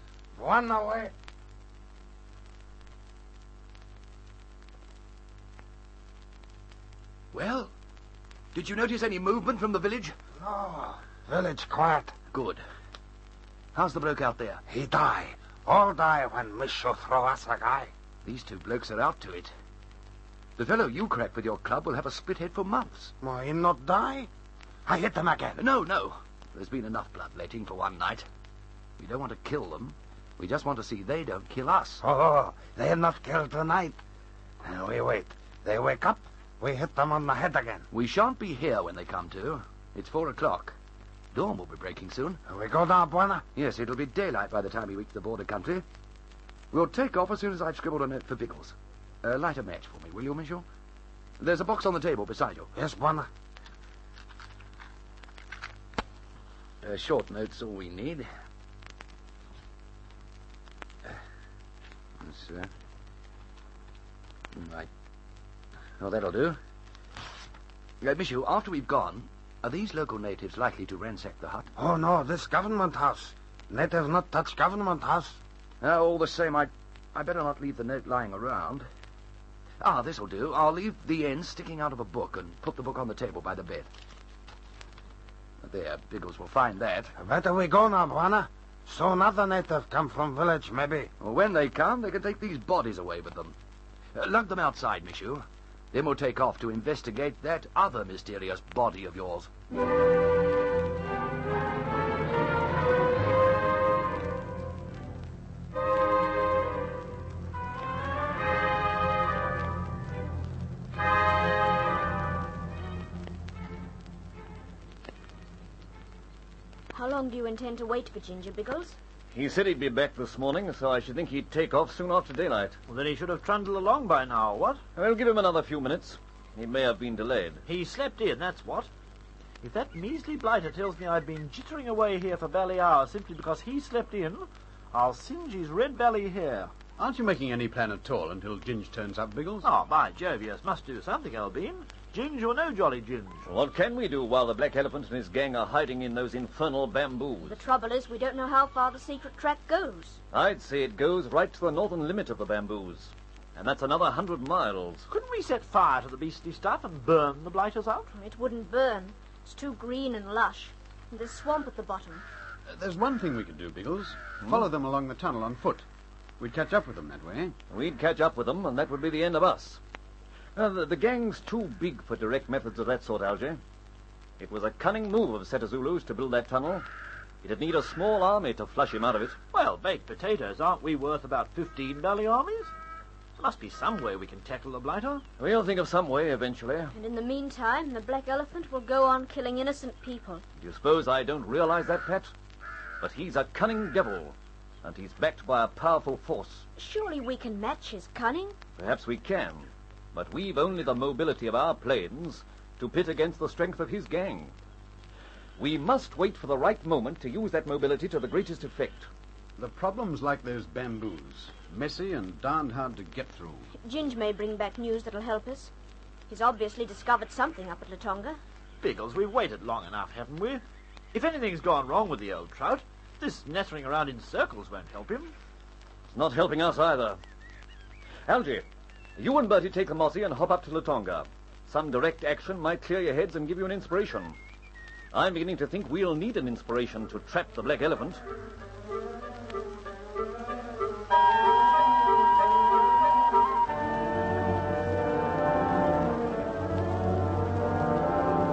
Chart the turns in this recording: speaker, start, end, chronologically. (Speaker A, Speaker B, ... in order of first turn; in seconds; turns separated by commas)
Speaker A: 0.3-1.1, Speaker B: 7.3-7.7, Speaker B: 8.5-10.2, Speaker A: 10.4-12.1, Speaker B: 12.3-12.6, Speaker B: 13.7-14.6, Speaker A: 14.7-17.9, Speaker B: 18.2-19.5, Speaker B: 20.6-23.1, Speaker A: 23.2-24.3, Speaker A: 24.9-25.6, Speaker B: 25.6-28.3, Speaker B: 29.0-32.0, Speaker A: 32.0-34.0, Speaker A: 34.6-37.9, Speaker B: 37.9-40.8, Speaker B: 41.3-42.4, Speaker A: 42.5-43.4, Speaker B: 43.5-45.8, Speaker B: 46.7-50.6, Speaker B: 51.4-52.7, Speaker A: 52.7-53.3, Speaker B: 56.8-58.3, Speaker B: 62.2-62.7, Speaker B: 64.5-64.9, Speaker B: 66.0-66.6, Speaker B: 68.0-71.7, Speaker A: 71.8-75.4, Speaker B: 75.8-78.9, Speaker B: 79.8-83.9, Speaker B: 85.6-87.2, Speaker A: 87.2-91.1, Speaker B: 91.2-93.5, Speaker B: 94.1-99.5, Speaker C: 116.9-119.0, Speaker D: 119.3-122.8, Speaker E: 122.8-124.8, Speaker D: 125.0-127.6, Speaker E: 127.7-128.9, Speaker E: 129.6-136.7, Speaker F: 137.0-139.7, Speaker E: 139.6-143.4, Speaker D: 143.4-147.6, Speaker C: 147.4-150.2, Speaker D: 150.3-155.1, Speaker E: 155.1-158.1, Speaker C: 158.1-162.2, Speaker F: 162.7-165.8, Speaker F: 166.4-167.5, Speaker D: 167.7-169.8, Speaker D: 170.6-173.6, Speaker D: 174.4-176.9, Speaker D: 177.4-179.4, Speaker E: 179.5-182.7, Speaker E: 183.3-185.2, Speaker D: 185.4-186.9, Speaker C: 186.9-190.4, Speaker D: 190.6-192.3, Speaker D: 193.0-196.7, Speaker C: 196.8-198.6, Speaker D: 198.8-204.5, Speaker D: 205.6-209.1, Speaker F: 209.6-213.7, Speaker C: 213.7-215.7, Speaker C: 216.3-218.4, Speaker E: 218.8-225.3, Speaker D: 226.1-227.2, Speaker D: 228.2-228.6, Speaker D: 229.2-234.4, Speaker D: 235.1-238.2